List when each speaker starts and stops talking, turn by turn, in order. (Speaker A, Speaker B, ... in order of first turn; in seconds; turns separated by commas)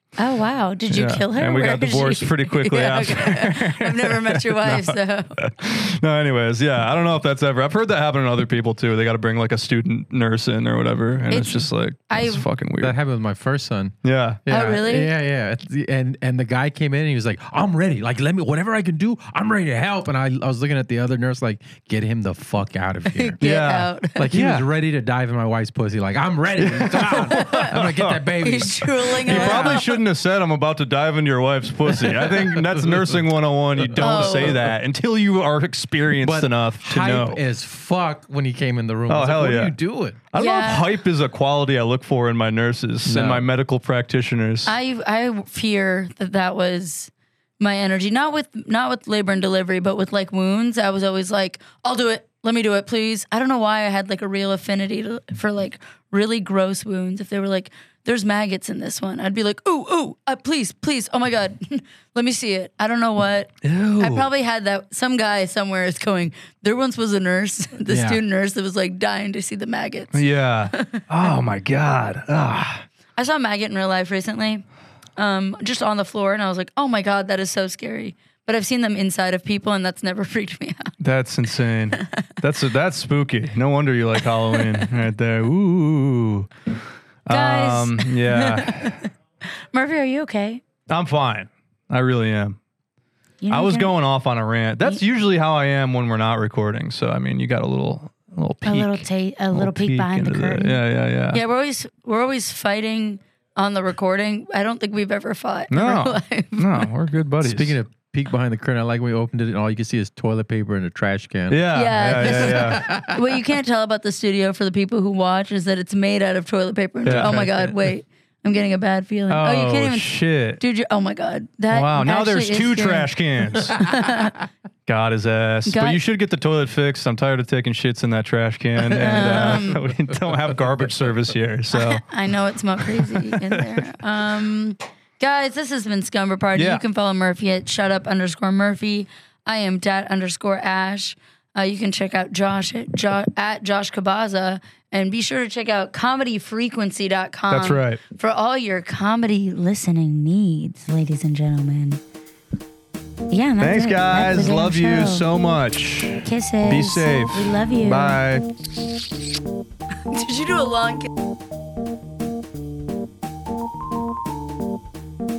Speaker A: 0.2-5.4, Speaker B: 0.9-13.0, Speaker A: 11.3-12.5, Speaker C: 12.8-23.5, Speaker B: 14.0-14.4, Speaker A: 14.5-15.1, Speaker A: 23.1-24.3, Speaker B: 23.4-24.7, Speaker C: 24.2-29.9, Speaker B: 26.6-28.3, Speaker A: 27.1-27.8, Speaker A: 28.4-30.0, Speaker B: 29.2-37.4, Speaker C: 31.9-32.9, Speaker C: 34.0-34.3, Speaker A: 34.0-34.6, Speaker C: 36.2-40.2, Speaker B: 39.1-39.8, Speaker B: 40.3-44.7, Speaker A: 40.3-40.9, Speaker C: 43.0-43.5, Speaker A: 44.7-71.3, Speaker B: 63.6-64.3, Speaker C: 67.9-68.2, Speaker B: 70.1-72.8, Speaker A: 73.2-74.6, Speaker A: 75.2-80.9, Speaker B: 81.0-86.5, Speaker A: 82.0-82.3, Speaker A: 84.5-84.8, Speaker B: 87.3-89.0, Speaker A: 87.3-89.1, Speaker A: 89.7-90.6, Speaker B: 90.9-92.6, Speaker A: 93.4-93.9, Speaker B: 93.5-101.4, Speaker A: 98.6-106.9, Speaker B: 105.7-107.8, Speaker C: 107.4-113.3, Speaker B: 111.5-112.9, Speaker A: 111.7-124.4, Speaker B: 117.0-117.8, Speaker B: 119.3-120.6, Speaker B: 121.7-124.1, Speaker B: 124.9-132.1, Speaker A: 125.7-126.0, Speaker A: 129.0-129.8, Speaker A: 131.7-152.0, Speaker B: 133.0-133.7, Speaker B: 136.6-136.8, Speaker B: 147.5-148.0, Speaker A: 153.3-155.3, Speaker B: 153.6-158.5, Speaker A: 156.2-158.2, Speaker A: 160.1-161.1